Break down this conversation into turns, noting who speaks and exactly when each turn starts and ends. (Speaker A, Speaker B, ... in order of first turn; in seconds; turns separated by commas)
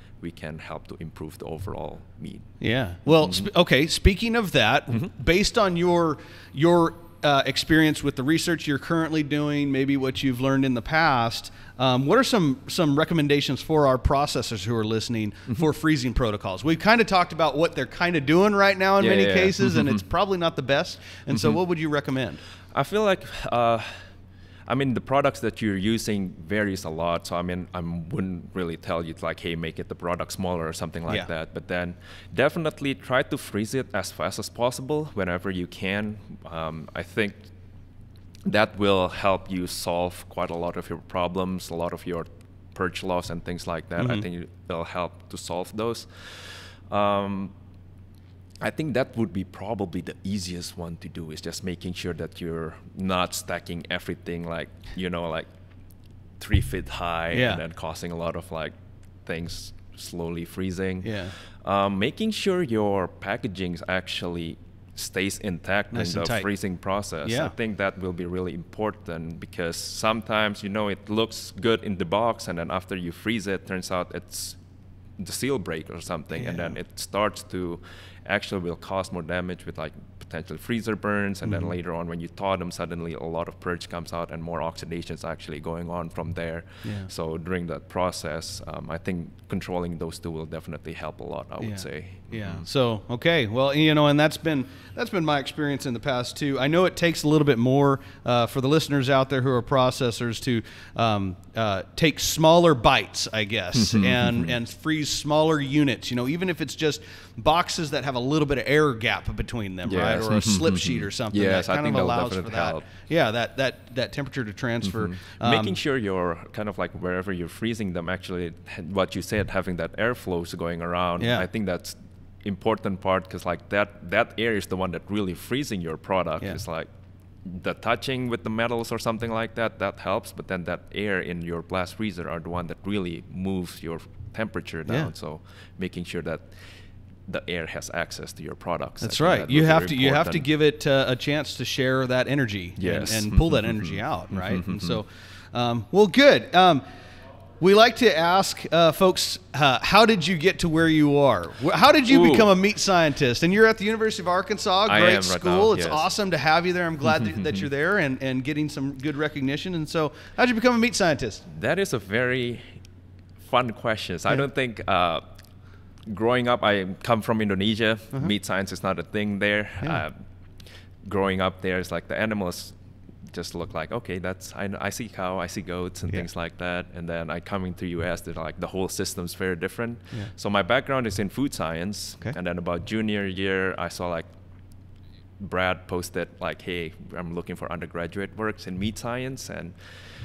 Speaker A: 0.2-2.5, Speaker B: 2.6-22.4, Speaker A: 3.2-3.5, Speaker A: 19.0-20.0, Speaker A: 22.7-24.1, Speaker A: 24.7-37.5, Speaker A: 38.5-47.5, Speaker B: 44.0-44.2, Speaker A: 48.6-55.5, Speaker A: 56.4-74.6, Speaker B: 57.3-57.6, Speaker B: 61.0-61.3, Speaker B: 65.9-66.5, Speaker B: 67.2-67.5, Speaker A: 75.2-92.6, Speaker B: 76.3-76.8, Speaker B: 81.4-81.7, Speaker B: 86.8-87.1, Speaker B: 91.6-115.8, Speaker A: 103.7-104.5, Speaker A: 109.8-112.8, Speaker A: 114.8-126.9, Speaker B: 121.2-121.5, Speaker A: 127.4-136.6, Speaker B: 134.9-135.1, Speaker A: 137.3-140.5, Speaker B: 139.0-146.8, Speaker A: 142.8-145.0, Speaker B: 147.6-161.4, Speaker A: 152.1-152.5, Speaker A: 154.8-156.1, Speaker A: 157.2-157.6, Speaker A: 161.4-162.8, Speaker A: 163.4-165.2, Speaker A: 166.1-170.2, Speaker A: 171.0-172.8, Speaker A: 173.3-184.3, Speaker A: 185.4-189.7